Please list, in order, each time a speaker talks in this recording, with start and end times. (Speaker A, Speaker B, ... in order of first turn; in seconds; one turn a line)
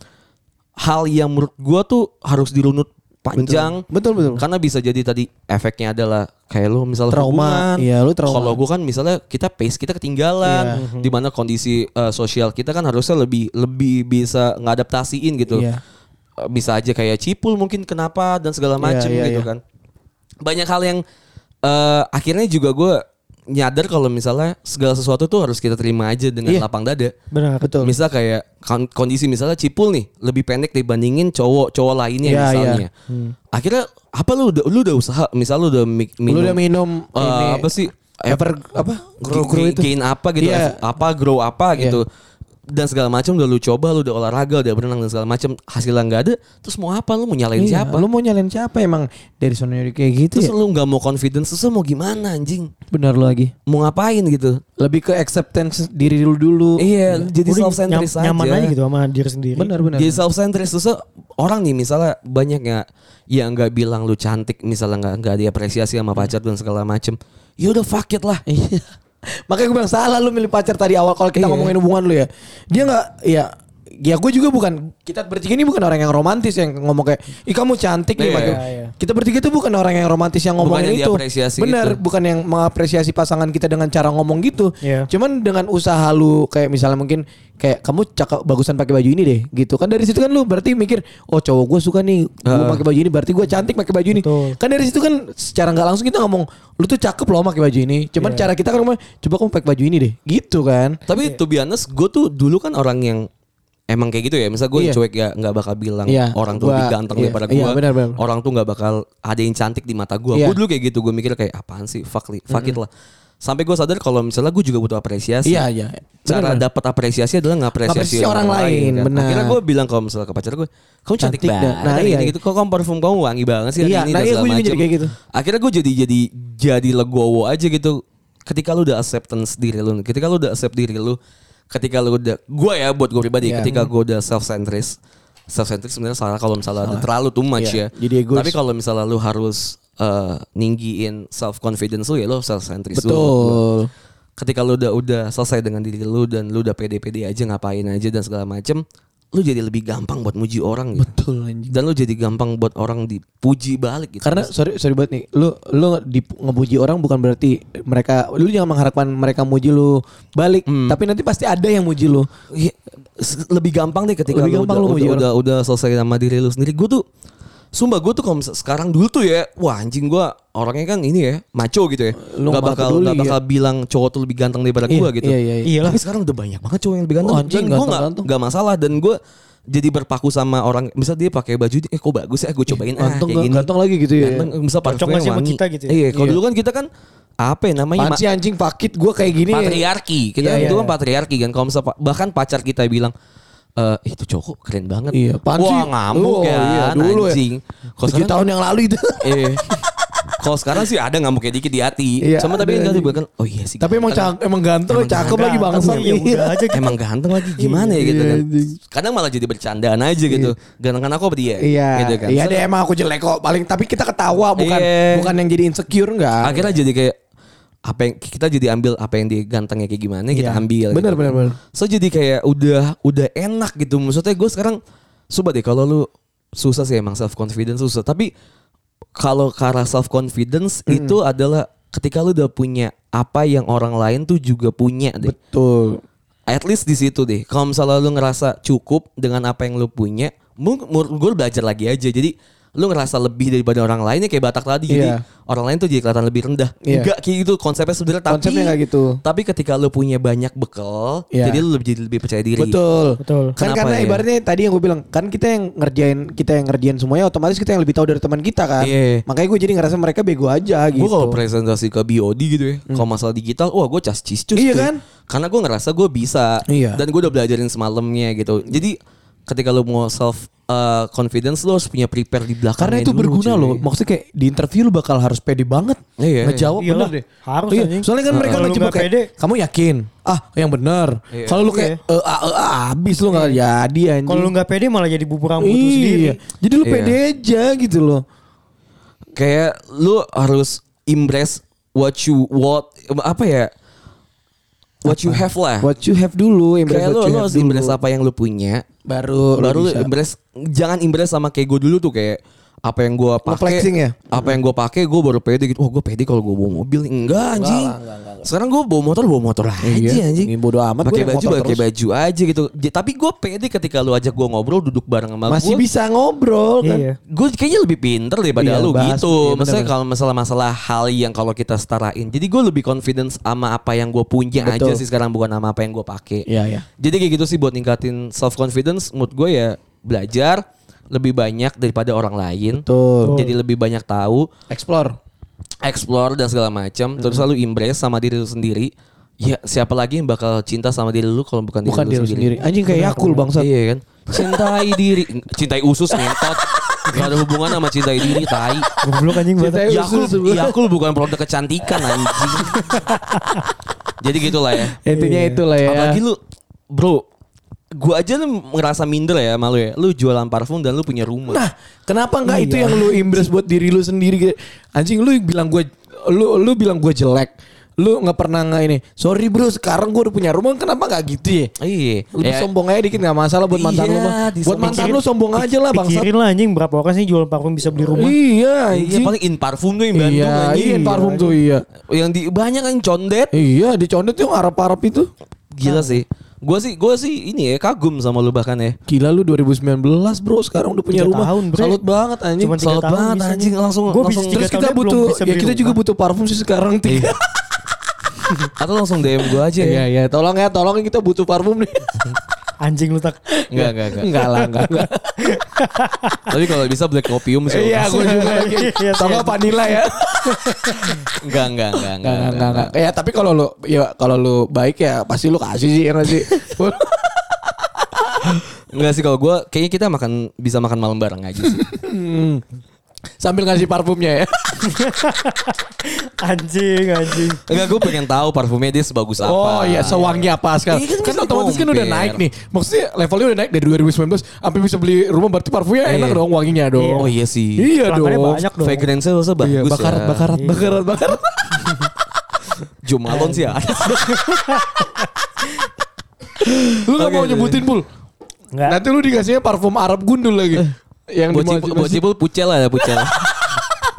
Speaker A: 0.8-3.8
Speaker B: 3.4-4.4
Speaker A: 4.4-15.7
Speaker B: 7.1-8.6
Speaker B: 10.4-10.8
Speaker C: 10.7-11.1
Speaker B: 15.5-15.8
Speaker A: 16.4-19.6
Speaker B: 18.8-19.5
Speaker A: 20.4-21.0
Speaker A: 21.6-27.1
Speaker C: 27.3-27.7
Speaker B: 27.6-28.0
Speaker A: 27.8-32.9
Speaker B: 32.2-32.8
Speaker A: 33.5-36.6
Speaker B: 36.3-37.7
Speaker A: 37.1-38.4
Speaker B: 38.3-40.8
Speaker A: 39.3-42.0
Speaker B: 41.7-42.0
Speaker A: 42.7-48.0
Speaker B: 47.5-50.5
Speaker A: 50.3-52.7
Speaker B: 52.9-53.5
Speaker A: 53.7-54.6
Speaker B: 54.8-57.2
Speaker A: 56.8-58.7
Speaker C: 57.5-59.7
Speaker B: 59.6-60.2
Speaker A: 60.0-68.4
Speaker B: 68.5-68.9
Speaker B: 69.5-101.0
Speaker A: 71.3-71.7
Speaker A: 78.2-78.6
Speaker C: 78.3-78.9
Speaker A: 80.6-82.0
Speaker C: 84.8-85.1
Speaker A: 92.5-92.8
Speaker C: 94.1-94.6
Speaker C: 98.2-98.5
Speaker A: 101.1-103.3
Speaker A: 103.9-112.9
Speaker B: 104.7-105.0
Speaker B: 106.0-108.2
Speaker B: 110.3-110.6
Speaker B: 112.5-112.8
Speaker A: 113.4-115.6
Speaker B: 115.4-116.6
Speaker A: 116.2-131.2
Speaker B: 117.8-119.6
Speaker B: 121.2-122.3
Speaker B: 123.8-125.1
Speaker A: 131.7-135.0
Speaker B: 133.4-133.9
Speaker A: 135.5-143.6
Speaker B: 136.8-138.6
Speaker B: 142.9-143.9
Speaker A: 144.4-151.1
Speaker B: 151.0-151.7
Speaker A: 151.7-154.5
Speaker B: 154.2-162.3
Speaker A: 160.7-161.0
Speaker A: 162.5-167.0
Speaker B: 164.3-165.2
Speaker A: 167.7-179.2
Speaker B: 172.2-173.4
Speaker B: 174.9-175.8
Speaker C: 175.6-176.0
Speaker B: 177.2-178.3
Speaker A: 179.7-183.7
Speaker B: 182.7-184.5
Speaker A: 184.2-186.9
Speaker C: 184.8-186.0
Speaker B: 186.1-186.4
Speaker A: 187.4-188.2
Speaker B: 188.0-189.8
Speaker A: 189.5-193.1
Speaker B: 190.4-190.9
Speaker C: 190.6-190.9
Speaker A: 193.8-198.3
Speaker B: 195.1-197.4
Speaker B: 198.1-199.8
Speaker A: 199.2-199.7
Speaker A: 200.4-204.3
Speaker B: 202.2-203.2
Speaker B: 203.8-206.7
Speaker A: 204.9-206.1
Speaker C: 205.3-206.9
Speaker A: 206.7-212.6
Speaker B: 207.5-208.8
Speaker B: 210.3-210.5
Speaker B: 211.6-216.7
Speaker A: 214.6-215.3
Speaker A: 216.4-217.1
Speaker A: 217.8-224.8
Speaker B: 220.3-221.6
Speaker A: 225.3-228.3
Speaker A: 229.2-235.3
Speaker B: 230.9-231.2
Speaker B: 235.2-236.0
Speaker A: 236.5-252.8
Speaker B: 244.9-245.2
Speaker B: 246.8-247.1
Speaker B: 248.3-249.2
Speaker B: 251.3-251.6
Speaker B: 252.6-261.4
Speaker C: 253.2-253.6
Speaker A: 253.6-254.2
Speaker A: 258.8-259.2
Speaker A: 260.9-273.8
Speaker B: 264.5-265.0
Speaker B: 266.7-267.0
Speaker B: 272.8-284.5
Speaker A: 276.2-276.7
Speaker C: 276.8-279.3
Speaker A: 278.3-278.6
Speaker A: 281.3-281.7
Speaker C: 281.6-282.0
Speaker C: 283.3-283.6
Speaker C: 284.3-286.4
Speaker B: 285.6-288.2
Speaker A: 286.8-287.2
Speaker A: 289.3-293.7
Speaker A: 295.0-295.9
Speaker B: 295.0-298.0
Speaker A: 296.9-298.8
Speaker B: 299.1-300.1
Speaker A: 299.6-310.5
Speaker B: 303.4-304.6
Speaker B: 307.4-308.5
Speaker B: 309.8-311.8
Speaker A: 311.0-315.8
Speaker B: 315.5-317.0
Speaker C: 316.8-317.1
Speaker A: 317.3-326.4
Speaker B: 318.5-319.9
Speaker B: 324.6-325.0
Speaker B: 326.4-326.8
Speaker A: 327.0-334.5
Speaker B: 332.7-333.4
Speaker C: 333.2-333.5
Speaker B: 334.7-335.1
Speaker A: 335.8-342.6
Speaker B: 341.8-343.7
Speaker C: 342.9-343.4
Speaker A: 343.6-348.9
Speaker B: 344.3-344.6
Speaker B: 346.2-347.4
Speaker B: 349.0-350.8
Speaker C: 349.0-349.9
Speaker A: 349.9-352.8
Speaker B: 351.9-353.0
Speaker C: 352.8-353.6
Speaker A: 354.2-354.9
Speaker B: 355.0-356.2
Speaker C: 355.1-355.6
Speaker A: 355.8-356.4
Speaker A: 356.9-357.2
Speaker A: 357.9-361.6
Speaker B: 361.5-371.7
Speaker C: 362.4-363.4
Speaker A: 371.8-372.7
Speaker B: 372.3-376.3
Speaker A: 373.7-375.2
Speaker C: 374.8-375.2
Speaker C: 375.9-378.4
Speaker B: 378.0-379.3
Speaker A: 378.9-381.2
Speaker B: 380.1-381.9
Speaker C: 381.0-381.5
Speaker A: 382.0-383.5
Speaker B: 383.5-385.3
Speaker A: 385.7-389.0
Speaker C: 385.9-386.2
Speaker B: 389.1-392.7
Speaker C: 391.1-392.0
Speaker C: 392.6-396.0
Speaker A: 392.8-394.7
Speaker B: 394.5-397.4
Speaker A: 397.1-397.3
Speaker A: 398.8-400.1
Speaker B: 399.8-402.3
Speaker C: 402.8-403.4
Speaker B: 403.5-405.4
Speaker A: 403.7-404.6
Speaker C: 404.8-406.5
Speaker A: 406.5-408.4
Speaker B: 407.6-417.2
Speaker C: 408.1-409.6
Speaker C: 410.5-411.1
Speaker A: 411.4-412.9
Speaker B: 418.0-418.5
Speaker A: 418.9-421.9
Speaker B: 421.7-422.6
Speaker B: 423.4-424.9
Speaker C: 424.8-427.6
Speaker A: 427.6-432.4
Speaker B: 429.4-438.7
Speaker A: 436.0-436.4
Speaker C: 436.9-437.3
Speaker A: 437.1-437.9
Speaker C: 438.0-439.1
Speaker A: 438.8-440.4
Speaker B: 439.6-442.1
Speaker C: 440.5-441.0
Speaker A: 443.0-444.4
Speaker C: 443.3-443.7
Speaker C: 444.3-445.2
Speaker A: 446.6-447.9
Speaker B: 447.0-448.1
Speaker C: 448.7-449.0
Speaker B: 448.9-452.2
Speaker A: 451.5-453.6